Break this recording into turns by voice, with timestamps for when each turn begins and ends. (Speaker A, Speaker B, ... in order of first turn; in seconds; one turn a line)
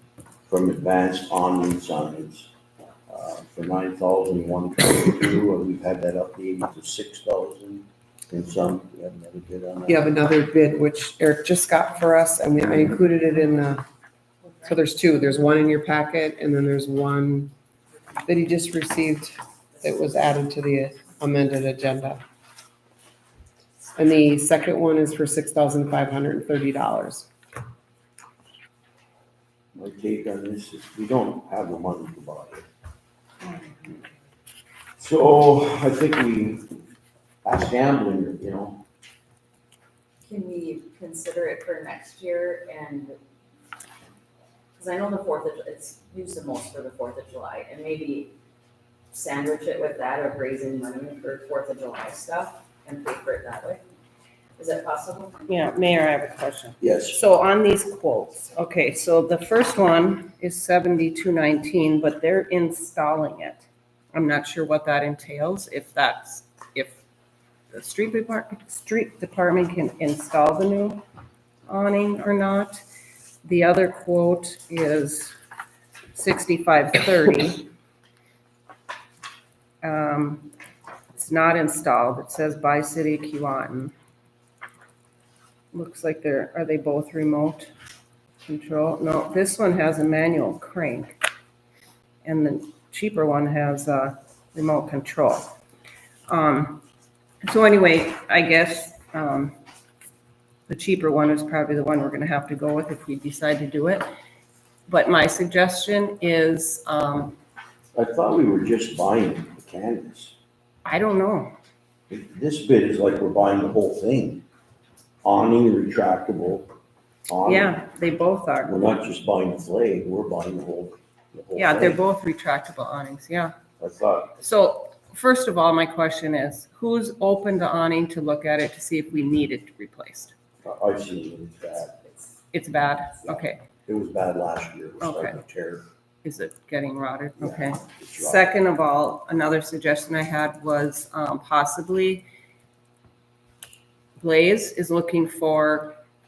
Speaker A: 0.5-2.5
Speaker A: 3.1-10.1
Speaker B: 9.9-13.8
Speaker C: 14.4-15.0
Speaker B: 14.6-17.5
Speaker C: 17.9-18.2
Speaker B: 18.2-22.2
Speaker B: 23.9-27.3
Speaker A: 29.7-32.6
Speaker A: 35.0-36.7
Speaker A: 37.4-38.8
Speaker C: 40.2-43.2
Speaker C: 44.8-48.3
Speaker C: 49.1-53.8
Speaker C: 54.6-55.4
Speaker D: 55.5-67.0
Speaker A: 56.8-57.2
Speaker D: 67.7-71.0
Speaker D: 71.7-72.8
Speaker D: 73.4-75.3
Speaker D: 76.1-77.7
Speaker D: 79.8-80.5
Speaker D: 81.1-83.9
Speaker D: 85.7-87.7
Speaker D: 88.5-91.2
Speaker D: 92.2-95.5
Speaker D: 96.3-96.8
Speaker D: 97.4-99.5
Speaker D: 100.7-104.1
Speaker D: 104.9-107.4
Speaker A: 107.9-110.3
Speaker D: 110.8-111.5
Speaker A: 112.1-114.4
Speaker A: 115.2-116.7
Speaker A: 117.3-117.8
Speaker D: 117.4-118.7
Speaker A: 118.7-122.0
Speaker D: 121.5-123.5
Speaker A: 123.8-124.4
Speaker D: 124.4-130.3
Speaker A: 130.6-132.0
Speaker D: 132.5-133.6
Speaker A: 133.2-135.8
Speaker D: 135.0-135.4
Speaker D: 136.2-142.2
Speaker A: 137.4-138.5
Speaker D: 144.2-146.0